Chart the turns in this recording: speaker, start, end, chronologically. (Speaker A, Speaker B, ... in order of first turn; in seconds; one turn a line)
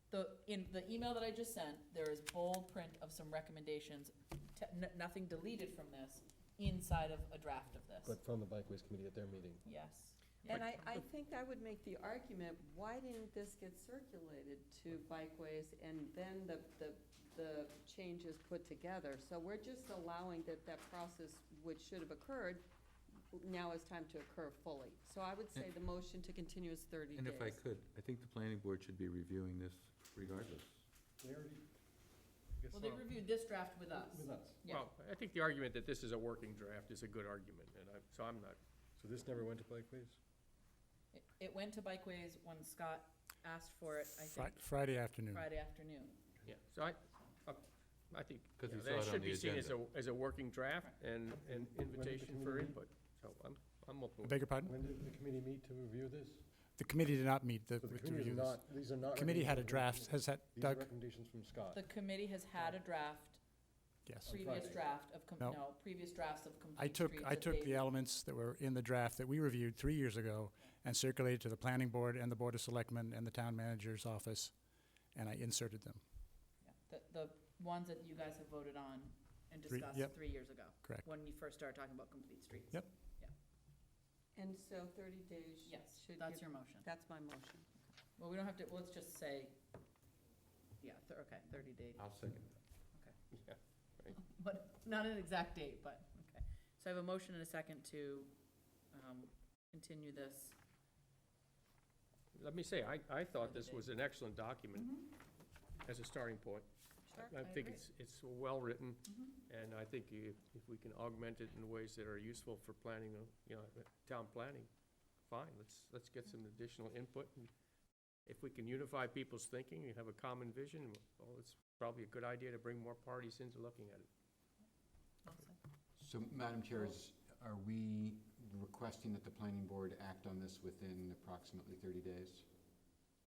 Speaker A: 0.1-8.2
Speaker B: 8.0-9.7
Speaker A: 9.7-10.7
Speaker C: 10.5-22.7
Speaker C: 23.3-27.6
Speaker D: 27.1-30.8
Speaker B: 31.2-31.7
Speaker B: 32.6-33.1
Speaker A: 32.7-34.9
Speaker B: 33.9-34.6
Speaker E: 34.7-38.6
Speaker B: 39.0-40.2
Speaker A: 41.1-44.7
Speaker F: 44.3-45.5
Speaker A: 45.3-46.2
Speaker E: 46.5-54.4
Speaker D: 48.6-49.8
Speaker B: 51.4-52.8
Speaker F: 54.2-54.7
Speaker B: 54.7-56.5
Speaker F: 56.7-60.9
Speaker B: 57.8-61.9
Speaker A: 61.7-63.4
Speaker F: 64.1-64.3
Speaker A: 64.2-67.9
Speaker B: 64.3-65.0
Speaker F: 65.2-65.6
Speaker F: 66.8-74.6
Speaker F: 75.1-76.0
Speaker A: 76.6-83.3
Speaker F: 79.7-81.0
Speaker C: 84.3-87.7
Speaker A: 85.7-86.9
Speaker A: 88.2-89.6
Speaker A: 90.8-92.1
Speaker D: 92.0-92.5
Speaker E: 93.3-94.1
Speaker A: 94.1-98.3
Speaker A: 98.9-100.6
Speaker E: 102.3-105.0
Speaker A: 103.4-103.9
Speaker A: 104.8-105.1
Speaker E: 105.8-114.7
Speaker C: 107.1-107.5
Speaker A: 107.4-107.8
Speaker A: 109.1-109.3
Speaker E: 115.3-117.5
Speaker E: 118.3-124.1
Speaker A: 125.2-125.6
Speaker G: 126.0-132.5